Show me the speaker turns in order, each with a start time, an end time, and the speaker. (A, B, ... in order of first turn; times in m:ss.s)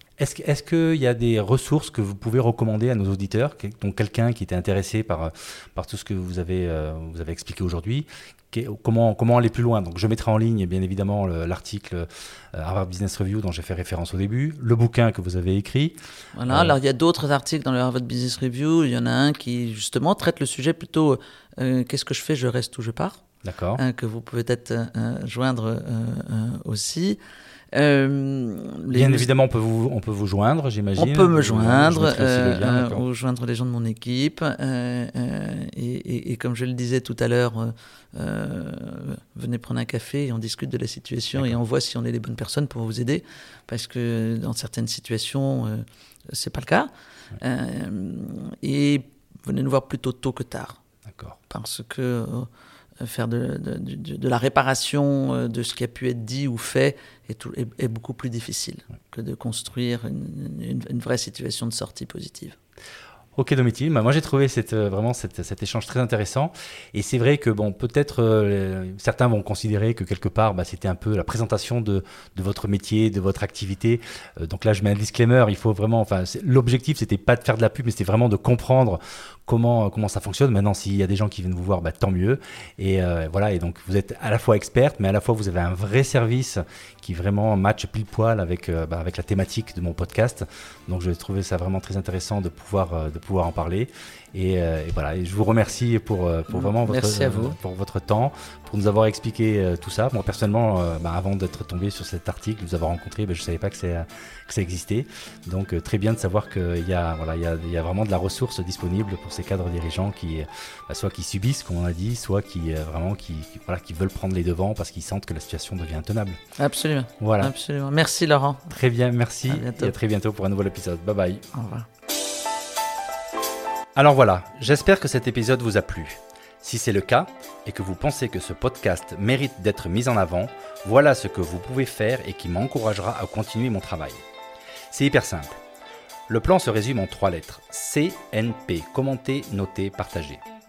0:00.2-0:16.0 A
0:16.4-0:23.2 B
0:16.5-0:16.8 A
0:23.4-0:23.8 A
0:23.8-0:27.2 B
0:27.7-0:29.3 B
0:28.9-0:33.0 A
0:31.0-0:50.8 B
0:51.1-0:51.4 A
0:51.5-0:52.5 B
0:53.0-1:02.6 B
1:03.4-1:56.4 A
1:36.5-1:37.6 B
1:56.6-1:58.7 B
1:57.2-1:57.5 A
1:58.7-2:01.5 A
1:59.5-2:00.0 B
2:01.5-2:01.9 B
2:04.0-2:14.2 A
2:14.9-2:15.6 A
2:16.3-2:20.4 A